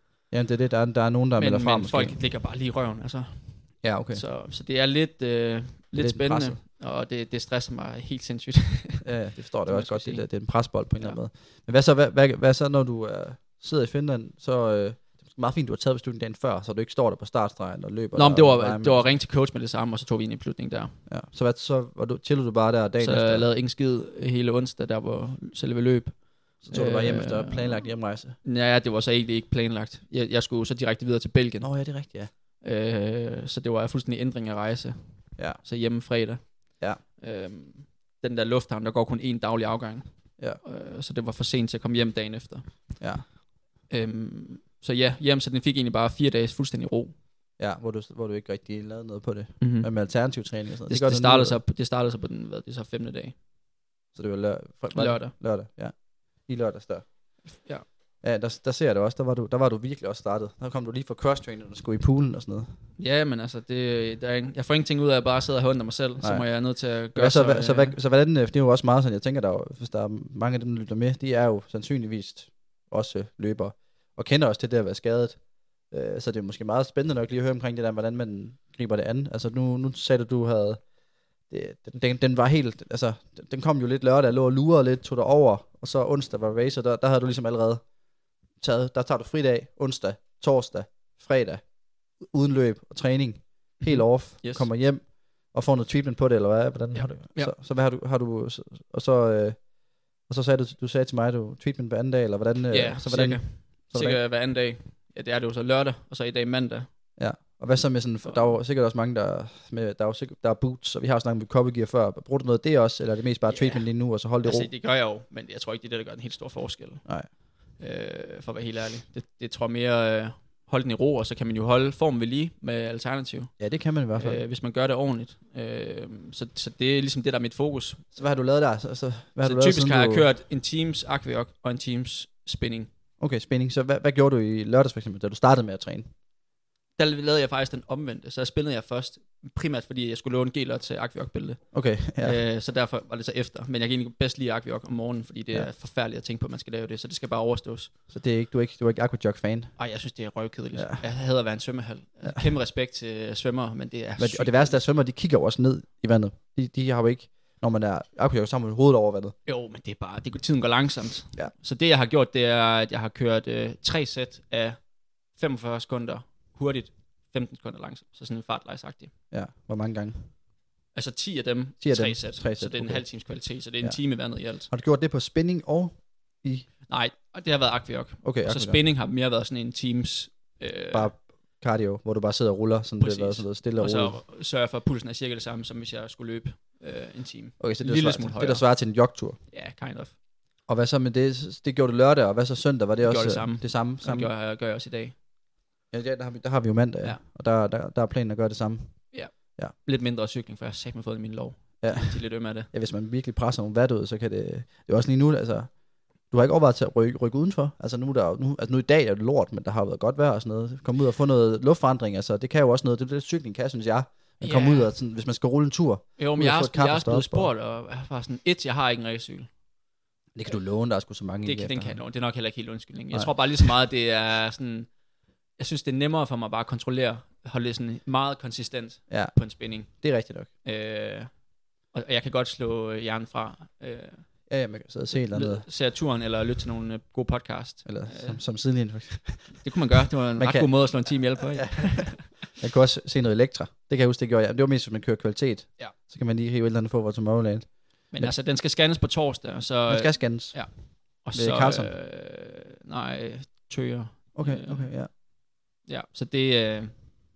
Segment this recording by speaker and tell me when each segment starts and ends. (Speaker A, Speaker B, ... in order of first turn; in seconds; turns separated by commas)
Speaker A: 0.3-2.2, Speaker B: 1.4-9.1, Speaker A: 3.8-4.2, Speaker A: 5.9-6.6, Speaker A: 9.0-19.2, Speaker B: 9.7-11.2, Speaker B: 18.1-21.0, Speaker A: 21.1-23.5, Speaker B: 23.0-27.9, Speaker A: 26.6-28.4, Speaker B: 28.4-31.7, Speaker A: 31.6-32.3, Speaker B: 32.6-43.3, Speaker A: 43.0-43.3, Speaker B: 43.9-47.1, Speaker A: 47.6-51.6, Speaker B: 49.6-49.9, Speaker B: 50.9-53.4, Speaker A: 54.1-57.1, Speaker B: 54.9-55.3, Speaker B: 57.5-57.9, Speaker A: 58.2-62.7, Speaker B: 63.0-68.0, Speaker A: 66.2-75.4, Speaker A: 75.9-80.8, Speaker A: 81.5-87.8, Speaker A: 88.6-91.7, Speaker A: 92.2-99.7, Speaker B: 93.8-94.7, Speaker B: 96.9-97.5, Speaker A: 100.2-104.2, Speaker B: 102.7-106.9, Speaker A: 107.2-114.7, Speaker B: 108.2-108.6, Speaker B: 113.5-113.9, Speaker B: 114.4-117.0, Speaker B: 117.8-123.5, Speaker A: 123.6-124.4, Speaker B: 124.2-128.1, Speaker A: 128.2-130.3, Speaker B: 129.4-132.9, Speaker A: 133.2-136.1, Speaker B: 137.0-147.9, Speaker A: 141.7-142.4, Speaker A: 148.1-149.8, Speaker B: 149.8-154.8, Speaker A: 150.7-151.0, Speaker A: 154.2-159.3, Speaker B: 159.5-164.8, Speaker B: 165.3-169.1, Speaker A: 169.3-170.3, Speaker B: 170.9-174.7, Speaker A: 171.8-174.0, Speaker A: 174.6-176.7, Speaker B: 176.9-181.1, Speaker A: 178.2-178.8, Speaker A: 180.9-184.2, Speaker B: 183.0-188.7, Speaker A: 187.6-189.4, Speaker B: 189.5-190.1, Speaker A: 190.7-194.3, Speaker B: 193.0-195.2, Speaker A: 195.9-199.0, Speaker B: 199.1-202.7, Speaker A: 201.8-205.7, Speaker A: 206.3-217.5, Speaker B: 214.4-214.9, Speaker B: 216.2-219.5, Speaker A: 220.3-222.0, Speaker B: 221.4-224.9, Speaker A: 223.1-223.7, Speaker B: 225.6-230.1, Speaker A: 229.1-230.5, Speaker B: 230.6-231.3, Speaker B: 231.9-234.3, Speaker A: 234.5-235.7, Speaker B: 235.2-238.4, Speaker A: 237.8-239.7, Speaker B: 239.6-242.3, Speaker A: 240.4-248.3, Speaker B: 248.1-255.1, Speaker A: 249.9-251.9, Speaker A: 254.3-255.1, Speaker B: 255.8-256.9